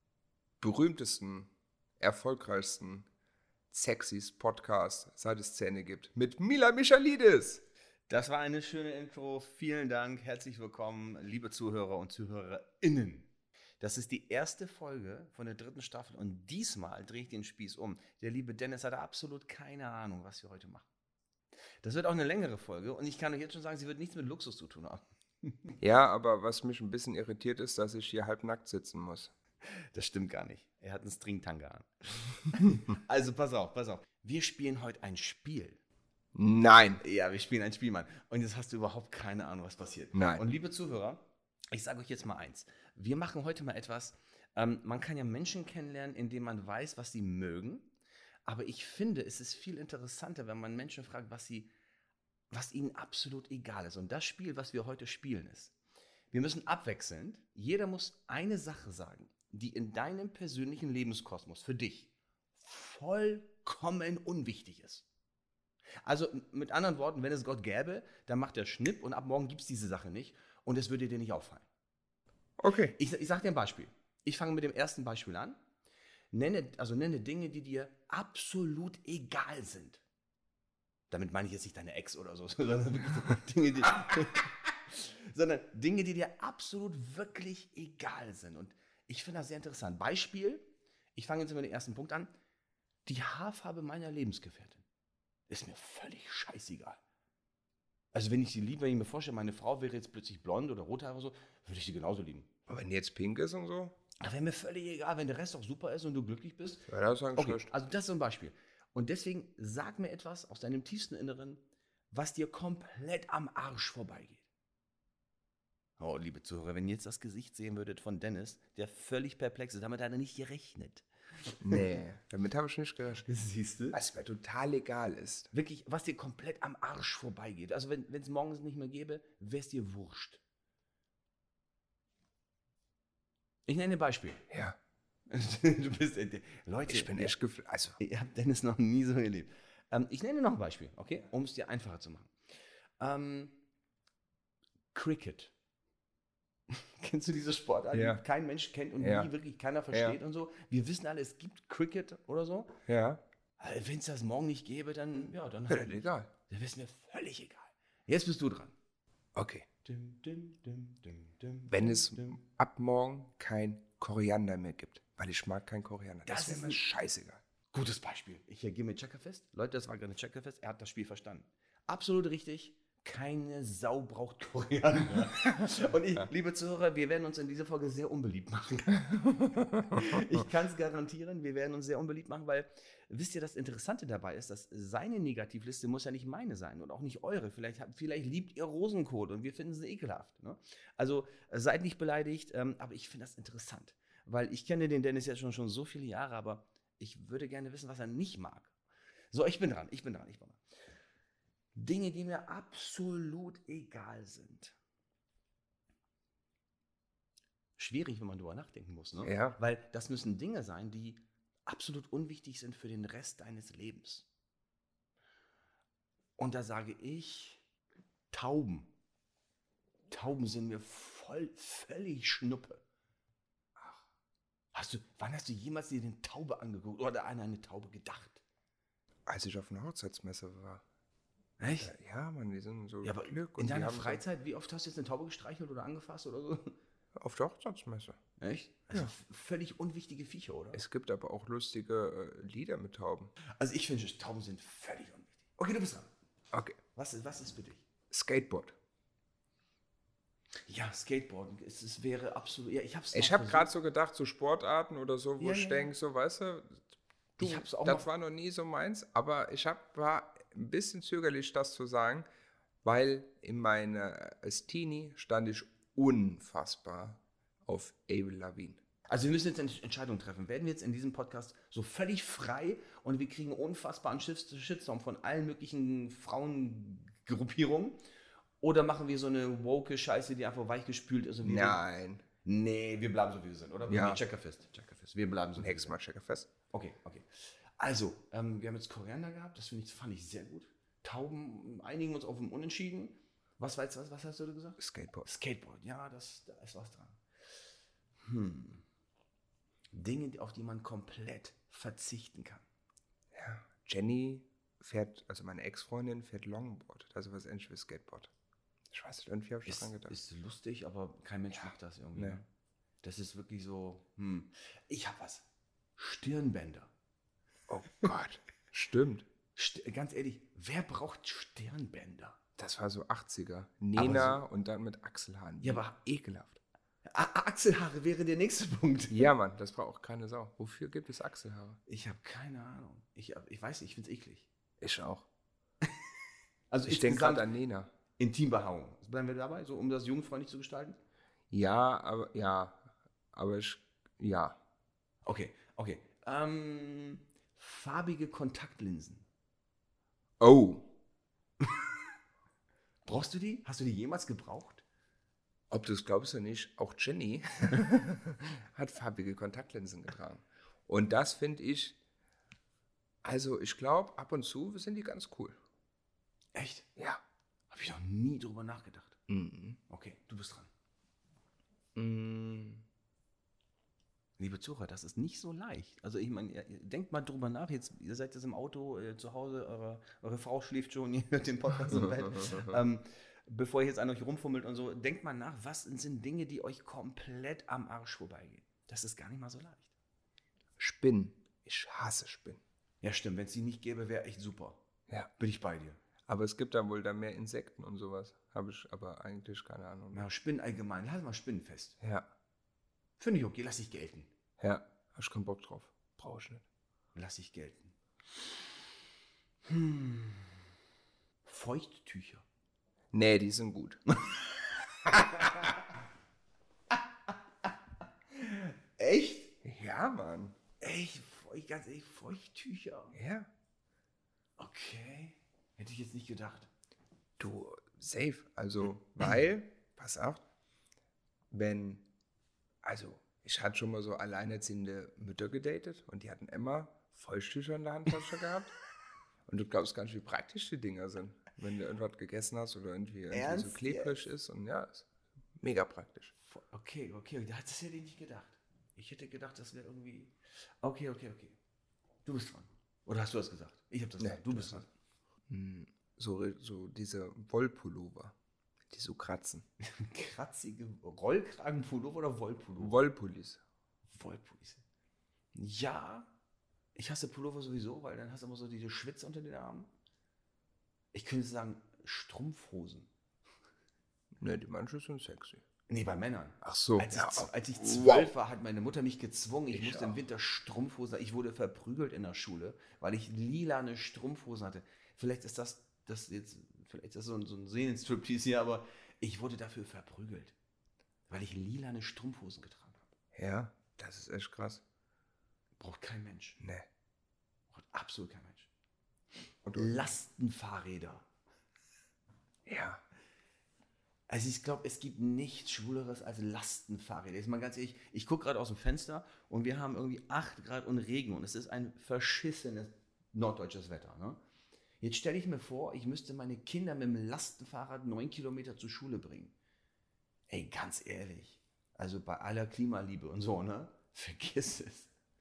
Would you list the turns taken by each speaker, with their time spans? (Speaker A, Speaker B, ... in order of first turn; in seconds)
Speaker A: 0.6-3.1, 3.7-7.6, 25.8-29.3, 36.3-37.0, 40.1-40.4, 72.6-73.0, 102.7-104.0, 106.9-107.7, 121.6-123.3, 123.9-125.5, 134.5-134.8, 136.9-138.0, 147.9-148.2, 149.0-149.3, 149.9-150.2, 152.8-153.2, 155.7-156.3, 159.3-159.7, 161.7-167.4, 179.6-180.0, 209.2-209.6, 229.3-230.8, 231.8-234.2, 237.2-238.2, 240.7-243.3, 246.5-246.8, 248.1-248.8, 253.1-262.3, 262.8-268.8, 281.4-282.2, 283.9-284.2, 285.6-286.5, 294.8-295.3, 303.3-308.3, 308.9-310.1, 311.5-312.4, 317.7-319.3, 322.6-326.6, 329.1-331.8, 334.8-335.3, 336.9-337.9, 341.5-344.6, 350.4-350.9, 355.7-362.0, 363.2-365.6, 366.9-367.2, 369.3-369.8, 371.9-372.8, 381.9-382.8, 390.8-392.6, 396.3-400.3, 402.0-402.3, 404.6-406.6, 413.1-414.0, 419.6-420.6, 423.1-423.5, 427.4-430.4, 431.5-432.1, 432.8-438.7, 439.4-445.1, 445.6-446.3, 454.2-454.8, 455.5-458.4, 458.9-459.6, 462.8-463.6, 474.4-475.6, 476.6-478.3, 479.7-480.2, 493.3-494.8, 496.6-496.9, 499.6-500.1, 502.6-503.0
Speaker B: 8.1-13.3, 13.8-20.9, 21.8-25.7, 29.7-35.8, 37.0-47.9, 48.5-51.7, 52.5-55.7, 56.3-65.1, 66.0-71.7, 73.0-75.6, 76.3-80.0, 81.1-92.3, 93.0-94.8, 95.5-97.0, 98.1-102.5, 104.2-114.4, 116.0-121.8, 123.3-124.0, 125.5-130.4, 133.7-134.4, 135.3-137.3, 138.0-142.3, 143.0-143.6, 144.9-145.5, 146.7-152.8, 153.6-158.7, 159.8-162.4, 166.3-166.8, 167.7-198.7, 199.3-200.6, 201.7-204.8, 207.8-214.3, 216.4-217.6, 218.3-218.9, 220.1-222.8, 224.7-228.4, 231.6-231.9, 233.0-236.7, 238.4-240.8, 243.6-246.1, 246.9-247.8, 250.7-253.7, 255.4-255.9, 257.4-258.1, 269.1-278.0, 278.6-281.8, 282.4-285.9, 286.7-297.2, 298.2-298.8, 299.9-302.6, 309.6-312.4, 313.0-315.4, 316.0-316.9, 319.6-322.4, 323.9-324.4, 325.6-325.9, 327.0-329.3, 331.9-334.5, 336.7-337.4, 338.2-341.0, 345.2-349.2, 353.0-354.8, 366.5-366.9, 367.7-369.2, 369.9-370.7, 374.4-389.9, 393.0-394.8, 395.4-396.0, 400.1-401.9, 403.2-404.3, 407.1-407.9, 409.6-410.6, 411.4-412.4, 415.0-415.8, 416.9-417.7, 418.3-419.5, 420.8-423.1, 424.6-426.7, 443.3-444.2, 446.5-451.6, 452.2-454.9, 459.8-463.0, 464.1-464.8, 465.5-466.3, 466.9-469.9, 471.1-473.1, 475.9-490.5, 491.3-493.1, 495.8-496.6, 497.7-498.7, 499.7-501.3, 504.3-514.4, 515.0-519.5, 520.5-525.1